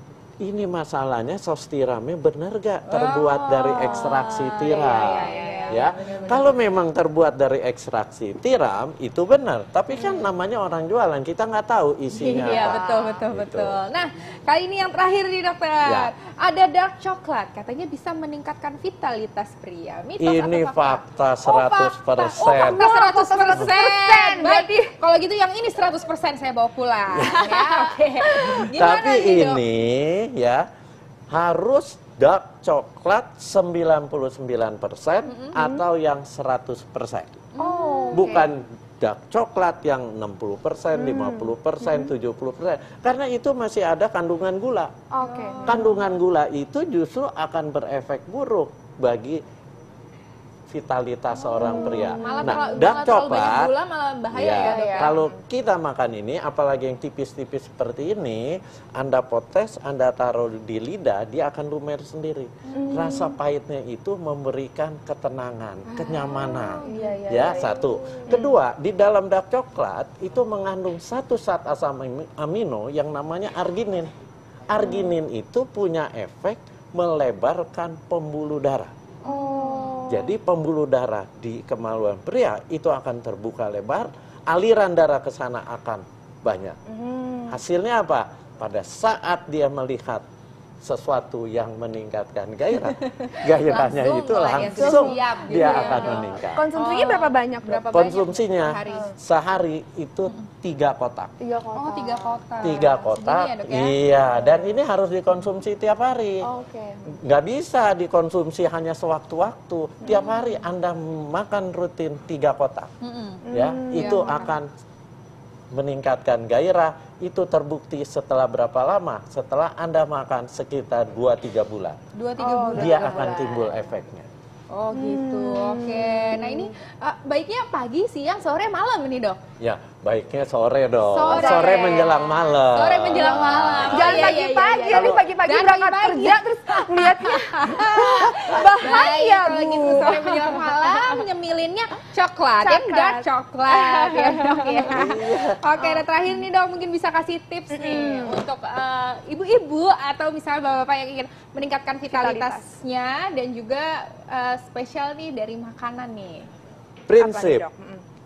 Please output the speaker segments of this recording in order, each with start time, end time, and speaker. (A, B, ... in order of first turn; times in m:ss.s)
0:00.4-0:13.8 A
0:02.9-0:06.6 B
0:03.8-0:06.5 C
0:09.9-0:10.3 B
0:12.1-0:29.6 B
0:12.3-0:13.2 C
0:15.8-0:16.1 A
0:20.2-0:22.8 A
0:22.6-0:24.9 C
0:27.1-0:27.4 A
0:27.3-0:28.6 C
0:28.6-0:30.6 A
0:31.3-0:37.4 A
0:35.3-0:35.6 B
0:35.6-0:35.8 C
0:37.5-0:38.5 B
0:37.6-0:38.5 C
0:38.1-0:44.9 A
0:40.9-0:42.1 C
0:45.1-0:46.0 C
0:45.2-0:46.0 B
0:45.6-0:49.4 A
0:50.7-0:53.7 A
0:51.5-0:52.9 C
0:51.6-0:55.2 B
0:54.3-1:14.1 A
0:54.6-0:55.4 C
1:02.7-1:03.4 C
1:05.9-1:08.5 C
1:06.4-1:07.2 B
1:14.7-1:18.9 A
1:14.8-1:15.1 C
1:19.2-1:20.3 C
1:19.2-1:20.1 B
1:20.1-1:26.8 A
1:26.9-1:27.6 C
1:27.5-1:30.2 A
1:30.8-1:36.6 A
1:33.1-1:39.1 B
1:34.5-1:37.9 C
1:37.8-1:41.3 A
1:41.4-1:42.9 C
1:41.7-1:44.3 B
1:42.6-1:46.4 A
1:46.4-1:47.2 C
1:47.2-1:52.9 A
1:50.0-1:50.4 C
1:53.0-1:54.6 B
1:53.4-1:54.5 C
1:53.5-1:54.7 A
1:55.7-2:02.0 A
2:02.1-2:03.9 B
2:02.4-2:03.4 C
2:02.7-2:04.3 A
2:04.7-2:09.4 B
2:04.9-2:06.7 C
2:09.6-2:14.4 A
2:11.1-2:36.5 B
2:11.3-2:12.1 C
2:13.3-2:21.1 C
2:14.9-2:15.2 A
2:18.3-2:18.7 A
2:22.6-2:25.1 C
2:24.9-2:25.6 A
2:25.8-2:26.0 C
2:27.7-2:28.4 C
2:32.1-2:32.6 C
2:37.1-2:37.6 A
2:37.2-2:38.0 C